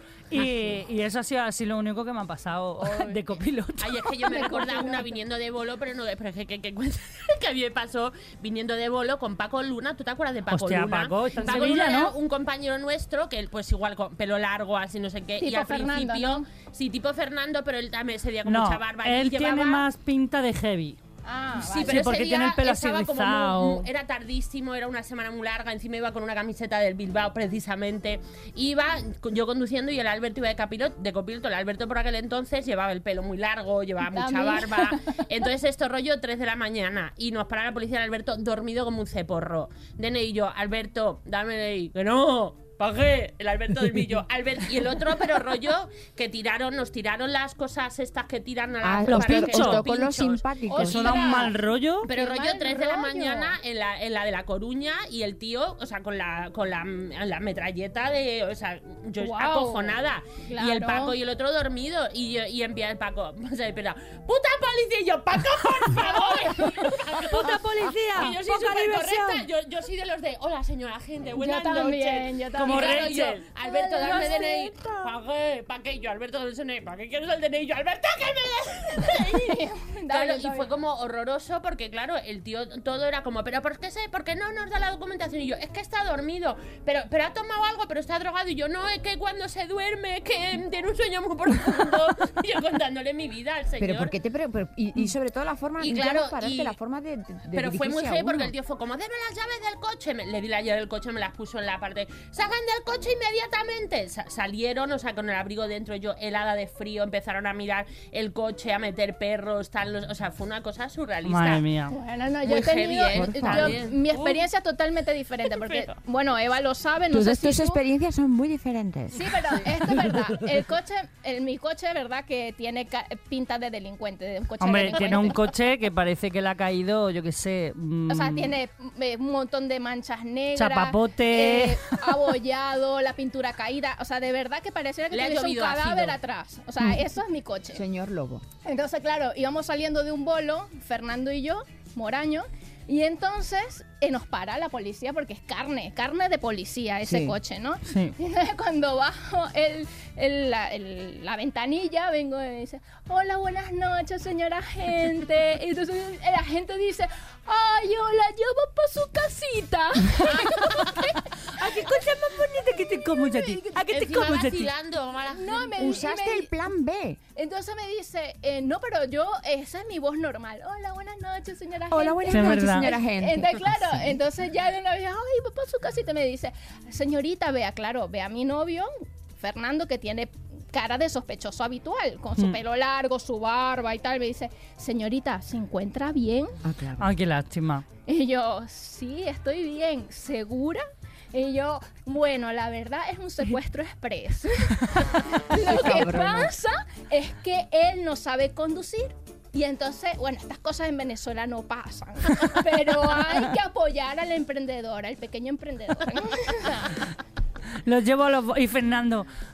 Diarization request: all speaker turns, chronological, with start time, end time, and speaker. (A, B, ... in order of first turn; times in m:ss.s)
0:00.3-0:04.3 A
0:02.8-0:03.3 B
0:03.8-0:19.9 B
0:04.2-0:05.2 C
0:10.5-0:12.1 A
0:15.4-0:16.5 C
0:18.5-0:21.0 A
0:21.2-0:22.1 C
0:21.6-0:51.5 B
0:21.9-0:23.9 A
0:34.1-0:35.2 C
0:48.8-0:51.3 D
0:49.1-0:49.8 A
0:50.7-0:51.5 C
0:50.9-0:52.1 A
0:52.0-1:34.1 B
0:52.0-0:53.6 C
0:59.2-1:01.2 C
1:06.1-1:06.9 C
1:07.2-1:09.4 A
1:11.4-1:15.0 C
1:12.6-1:13.4 A
1:14.0-1:15.0 A
1:19.0-1:20.7 C
1:33.8-1:38.5 D
1:35.8-1:36.8 B
1:37.5-1:51.6 B
1:51.2-1:51.9 A
1:51.9-1:57.8 C
1:52.4-1:54.4 B
1:53.1-1:53.8 D
1:55.5-1:55.9 B
1:57.1-2:00.2 D
1:59.1-2:05.5 C
2:04.6-2:08.5 A
2:05.0-2:05.2 B
2:08.1-2:17.8 C
2:10.6-2:12.0 A
2:15.1-2:16.2 B
2:17.7-2:18.4 D
2:18.6-2:41.6 C
2:27.0-2:27.4 D
2:27.9-2:28.2 A
2:40.2-2:41.1 B
2:41.5-2:44.7 A
2:43.1-2:43.8 C
2:43.9-2:45.8 B
2:45.3-2:46.5 C
2:45.8-2:47.2 D
2:47.4-3:06.6 C
2:51.9-2:54.2 D
2:52.3-2:52.8 A
3:06.6-3:07.1 D
3:07.0-3:07.8 A
3:08.1-3:27.1 C
3:15.5-3:16.5 D
3:27.8-3:29.3 A